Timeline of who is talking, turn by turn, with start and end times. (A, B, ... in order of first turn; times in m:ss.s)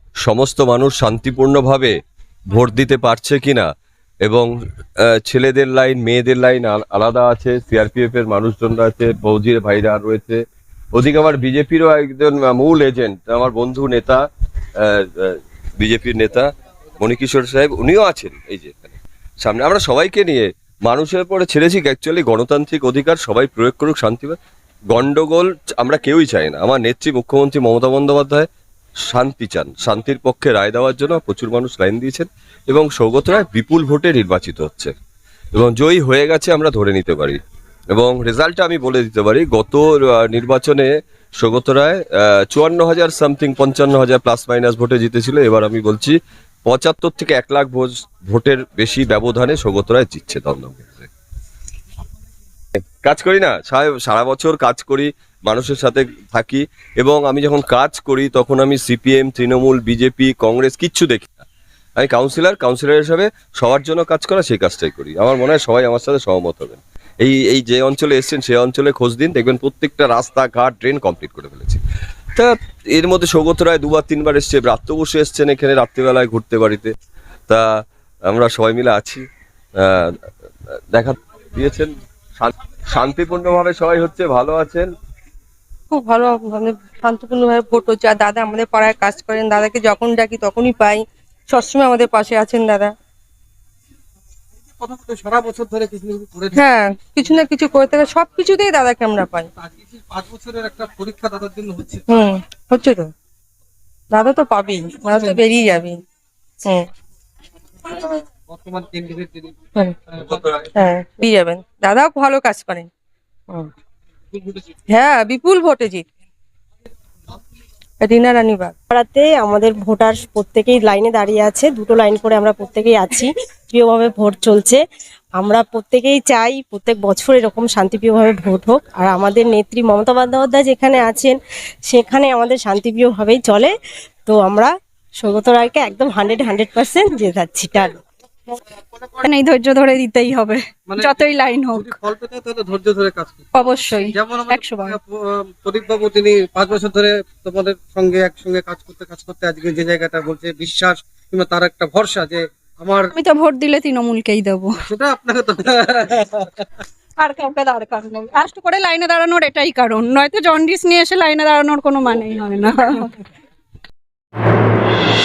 0:00.2-0:02.0 A
0:02.5-0:03.7 A
0:04.2-0:10.4 A
0:10.9-0:14.2 A
0:14.8-0:24.4 A
0:24.9-0:28.5 A
0:29.1-0:34.9 A
0:35.5-0:37.4 A
0:37.9-0:51.1 A
0:53.0-1:01.3 A
1:02.0-1:11.8 A
1:12.4-1:16.9 A
1:18.3-1:19.2 A
1:19.8-1:20.1 A
1:20.9-1:24.9 A
1:25.9-1:32.9 B
1:34.8-1:36.6 C
1:36.6-1:39.5 B
1:39.8-1:42.0 C
1:42.1-1:43.1 B
1:44.1-1:46.0 B
1:48.5-1:49.6 C
1:50.1-1:50.4 C
1:50.6-1:52.9 B
1:54.3-1:54.6 C
1:54.9-1:56.0 B
1:58.0-1:58.7 B
1:58.9-2:04.8 D
2:05.4-2:11.4 D
2:11.9-2:13.7 D
2:14.2-2:18.0 D
2:19.2-2:21.9 E
2:20.9-2:21.2 C
2:21.7-2:23.5 C
2:23.5-2:25.0 E
2:24.1-2:33.1 C
2:33.1-2:34.7 E
2:34.8-2:36.5 C
2:37.2-2:43.1 E